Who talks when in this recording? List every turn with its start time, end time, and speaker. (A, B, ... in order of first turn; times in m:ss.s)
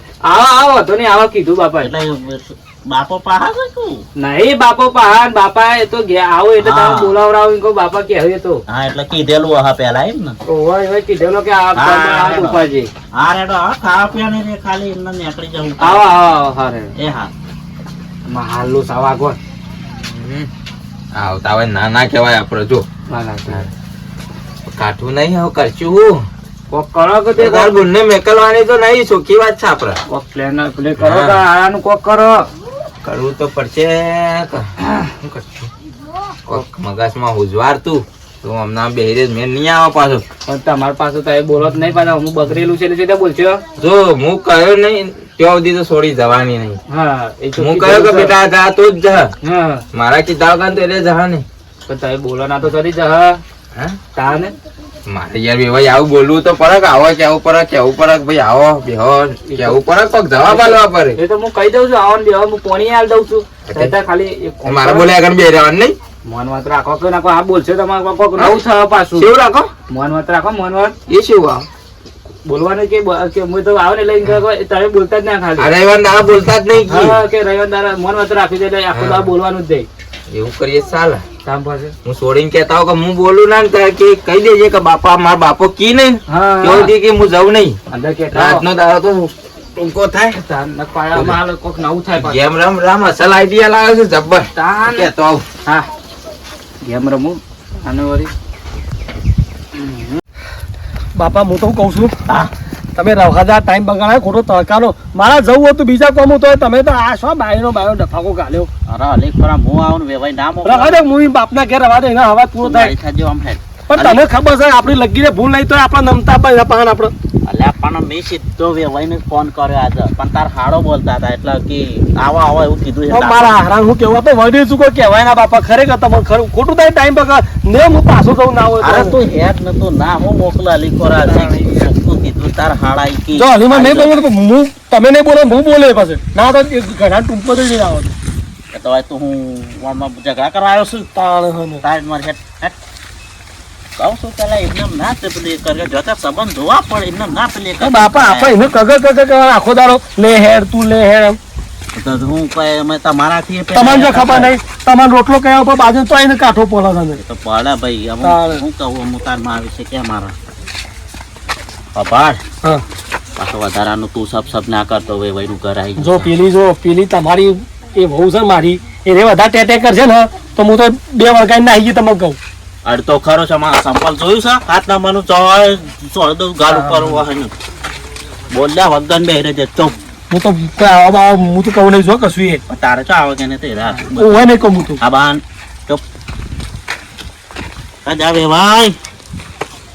0:00.2-0:01.9 A
0:01.8-0:04.0 B
0:04.2-0:08.6 A
0:06.6-0:07.2 B
0:08.7-0:10.4 B
0:10.4-0:12.9 A
0:11.7-0:12.6 B
0:13.1-0:16.1 B
0:15.8-0:16.9 A
0:17.0-0:17.3 B
0:18.3-0:19.4 A
0:19.9-0:20.5 C
0:21.1-0:22.8 C
0:23.1-0:23.6 A
0:24.7-0:26.2 C
0:26.7-0:27.8 A
0:27.4-0:30.0 C
0:30.1-0:32.4 A
0:31.0-0:31.4 C
0:33.0-0:35.7 C
0:36.5-0:40.2 C
0:40.4-0:43.6 A
0:43.8-0:46.8 C
0:46.9-0:48.3 A
0:47.6-0:49.3 C
0:49.4-0:49.8 A
0:49.9-0:51.4 C
0:51.9-0:53.4 A
0:54.1-0:54.5 A
0:55.1-1:01.2 C
0:59.5-0:59.8 A
1:00.4-1:05.1 A
1:03.7-1:03.9 C
1:04.6-1:06.0 C
1:06.2-1:09.3 A
1:08.4-1:08.6 C
1:09.2-1:09.7 C
1:09.9-1:10.9 A
1:11.1-1:11.7 C
1:12.4-1:15.7 A
1:15.6-1:17.2 C
1:16.9-1:19.9 A
1:18.9-1:19.3 C
1:20.3-1:21.2 C
1:21.4-1:21.9 A
1:22.0-1:27.8 C
1:26.3-1:26.9 A
1:27.9-1:28.6 A
1:28.3-1:30.4 C
1:30.3-1:32.4 A
1:32.2-1:35.4 C
1:34.5-1:35.1 A
1:36.8-1:38.3 A
1:39.7-1:40.2 A
1:41.2-1:42.1 D
1:42.2-1:42.5 B
1:43.0-1:48.7 D
1:48.9-1:51.0 B
1:50.6-1:52.9 D
1:52.6-1:54.2 B
1:53.9-1:57.1 D
1:57.4-2:03.5 B
2:03.1-2:09.2 D
2:08.8-2:14.2 B
2:11.3-2:11.6 D
2:13.3-2:18.1 D
2:18.7-2:21.1 B
2:21.1-2:21.8 D
2:21.8-2:22.8 B
2:24.0-2:28.6 B
2:27.8-2:31.4 D
2:31.9-2:34.5 B
2:33.7-2:37.2 D
2:37.2-2:40.3 B
2:38.2-2:38.6 D
2:41.9-2:42.4 B
2:43.4-2:46.3 B
2:46.0-2:52.4 D
2:52.8-2:57.5 B
2:56.7-2:57.2 A
2:58.5-3:00.0 B
3:00.3-3:02.6 D
3:02.7-3:04.5 B
3:04.1-3:05.0 D
3:05.0-3:06.0 B
3:08.0-3:09.0 B